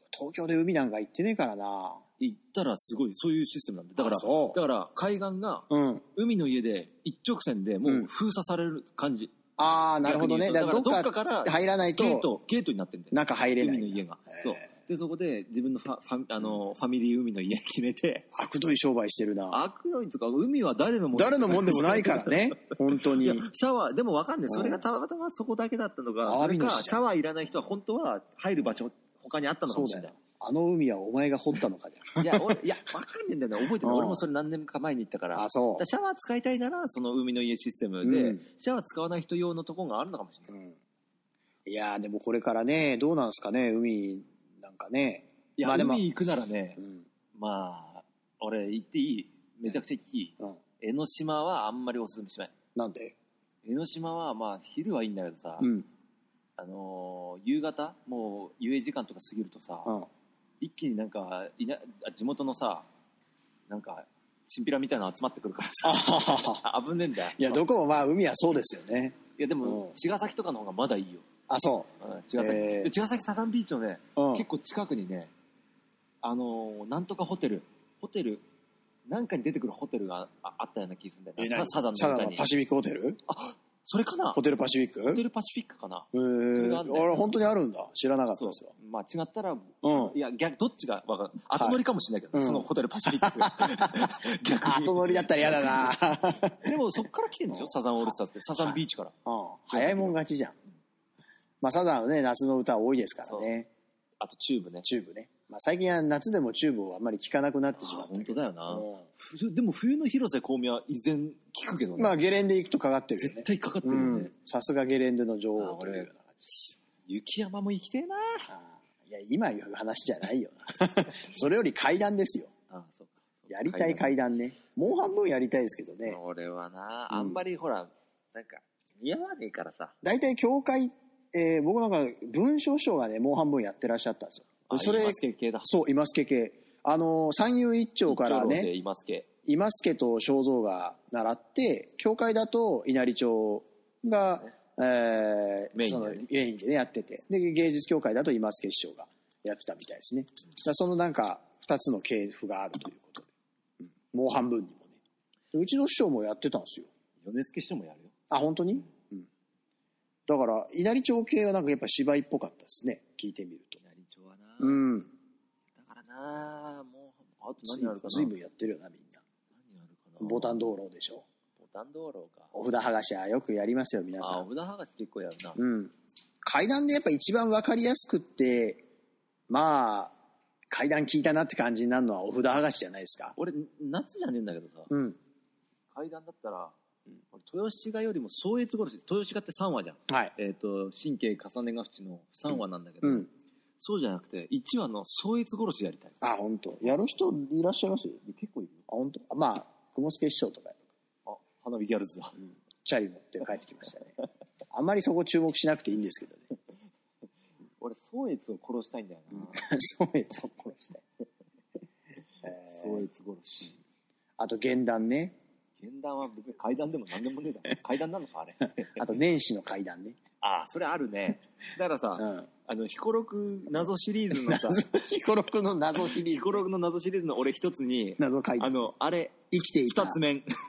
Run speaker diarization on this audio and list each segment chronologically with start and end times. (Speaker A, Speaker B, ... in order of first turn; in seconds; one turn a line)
Speaker A: 0.1-2.0
Speaker B: 2.2-9.3
Speaker A: 4.0-4.6
Speaker A: 5.7-6.0
Speaker A: 9.6-12.3
Speaker B: 10.0-18.3
Speaker A: 13.1-14.5
Speaker A: 18.3-19.6
Speaker B: 19.5-30.2
Speaker A: 21.1-23.5
Speaker A: 24.5-24.8
Speaker A: 26.2-27.0
Speaker A: 29.7-32.6
Speaker B: 32.2-40.5
Speaker A: 33.8-34.2
Speaker A: 35.4-35.9
Speaker A: 38.0-38.4
Speaker A: 40.5-40.8
Speaker A: 41.7-46.0
Speaker B: 45.6-46.8
Speaker A: 46.8-47.0
Speaker B: 47.3-52.5
Speaker A: 52.8-53.1
Speaker B: 53.6-55.7
Speaker A: 55.6-55.9
Speaker B: 56.6-59.9
Speaker B: 60.6-62.9
Speaker B: 63.7-67.6
Speaker A: 65.8-66.7
Speaker A: 67.4-69.9
Speaker B: 69.4-71.3
Speaker A: 71.5-72.9
Speaker B: 72.0-75.3
Speaker A: 74.2-74.5
Speaker B: 76.2-78.5
Speaker B: 79.1-82.5
Speaker A: 81.4-83.2
Speaker B: 83.3-84.4
Speaker A: 84.3-85.2
Speaker B: 85.1-87.2
Speaker A: 86.1-88.7
Speaker B: 88.4-95.9
Speaker A: 89.8-90.2
Speaker A: 92.3-96.8
Speaker B: 96.5-99.1
Speaker A: 98.6-100.6
Speaker B: 99.7-100.2
Speaker A: 101.6-103.7
Speaker B: 104.2-104.9
Speaker A: 104.8-109.0
Speaker B: 107.8-112.2
Speaker A: 112.0-116.4
Speaker B: 113.2-114.3
Speaker B: 115.6-116.1
Speaker B: 117.1-118.5
Speaker A: 118.5-122.5
Speaker B: 122.7-124.2
Speaker A: 123.5-126.2
Speaker B: 126.0-129.9
Speaker A: 127.1-127.4
Speaker A: 130.0-138.7
Speaker B: 134.7-135.7
Speaker B: 138.1-139.3
Speaker A: 139.5-153.3
Speaker B: 145.8-146.2
Speaker A: 154.0-155.0
Speaker A: 155.5-156.9
Speaker B: 157.2-158.1
Speaker A: 158.3-159.3
Speaker A: 160.3-163.8
Speaker B: 163.8-164.8
Speaker A: 164.6-165.1
Speaker B: 165.8-168.3
Speaker A: 167.7-169.2
Speaker B: 169.5-170.6
Speaker A: 170.2-171.3
Speaker B: 171.6-172.5
Speaker A: 172.5-174.4
Speaker B: 174.2-175.6
Speaker A: 175.6-178.8
Speaker A: 179.5-180.2
Speaker A: 180.7-183.4
Speaker B: 183.4-184.9
Speaker A: 184.9-185.2
Speaker B: 185.9-186.8
Speaker B: 187.3-196.2
Speaker A: 190.1-190.3
Speaker A: 196.2-198.2
Speaker B: 198.2-198.8
Speaker A: 198.9-200.8
Speaker B: 201.3-202.4
Speaker A: 202.8-204.1
Speaker A: 204.7-206.5
Speaker B: 207.8-209.7
Speaker A: 209.3-211.0
Speaker A: 212.4-213.1
Speaker B: 212.6-213.8
Speaker A: 214.4-215.4
Speaker B: 215.8-219.0
Speaker A: 218.9-220.2
Speaker B: 220.4-224.9
Speaker A: 222.2-222.5
Speaker A: 224.3-226.7
Speaker B: 226.1-230.5
Speaker A: 228.2-228.9
Speaker A: 229.5-230.2